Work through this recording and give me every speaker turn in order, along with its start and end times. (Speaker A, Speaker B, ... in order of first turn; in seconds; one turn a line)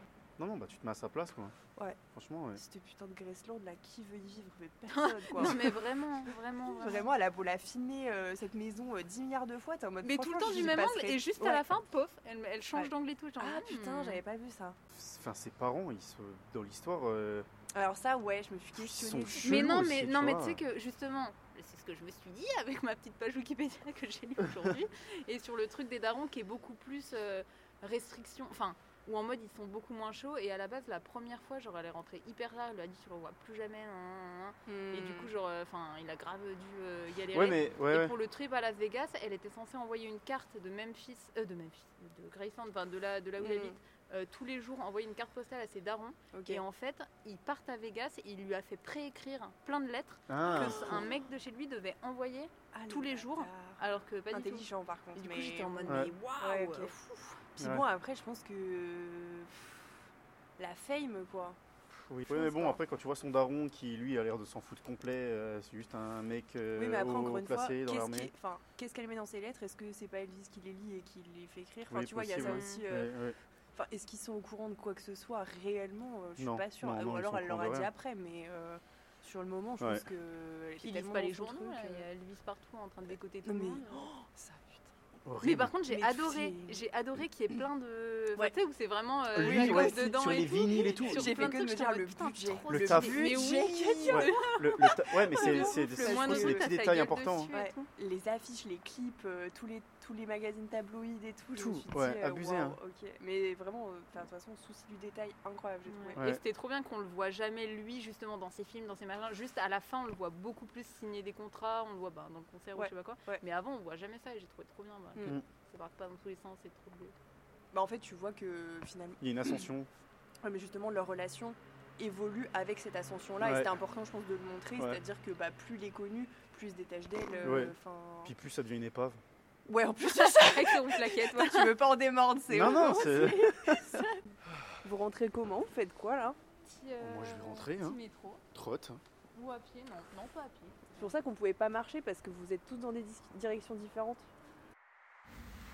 Speaker A: 0.4-1.5
Speaker A: 2.1-2.6
Speaker B: 2.5-5.8
Speaker C: 4.9-7.1
Speaker B: 6.7-11.7
Speaker C: 10.0-14.2
Speaker B: 12.7-14.8
Speaker A: 14.9-17.5
Speaker B: 17.7-19.5
Speaker A: 18.7-20.6
Speaker C: 19.3-56.9
Speaker B: 34.7-35.3
Speaker A: 37.3-38.1
Speaker B: 43.4-43.8
Speaker B: 46.3-46.6
Speaker A: 50.3-51.0
Speaker B: 50.6-51.1
Speaker B: 52.7-59.8
Speaker A: 55.9-56.1
Speaker A: 57.6-57.8
Speaker B: 60.6-61.6
Speaker A: 62.1-68.3
Speaker B: 62.3-62.8
Speaker B: 66.7-73.1
Speaker A: 71.9-73.3
Speaker C: 72.4-72.8
Speaker B: 73.7-82.1
Speaker A: 76.4-77.9
Speaker A: 79.8-80.0
Speaker C: 80.8-84.1
Speaker B: 83.4-84.9
Speaker A: 85.2-85.7
Speaker C: 85.4-97.9
Speaker B: 85.8-86.9
Speaker A: 89.3-91.4
Speaker B: 89.3-94.5
Speaker A: 92.7-93.2
Speaker A: 94.0-97.5
Speaker B: 95.3-97.0
Speaker B: 97.5-106.3
Speaker A: 101.5-102.8
Speaker C: 105.8-117.1
Speaker B: 112.7-113.4
Speaker B: 117.7-119.7
Speaker A: 119.2-119.9
Speaker B: 120.4-128.3
Speaker A: 123.4-123.7
Speaker A: 127.4-129.2
Speaker B: 129.7-134.0
Speaker C: 130.0-131.8
Speaker A: 132.5-133.9
Speaker C: 133.7-134.2
Speaker B: 134.8-136.4
Speaker C: 136.6-138.4
Speaker A: 137.0-138.0
Speaker A: 138.5-139.0
Speaker C: 139.3-141.0
Speaker B: 140.9-144.3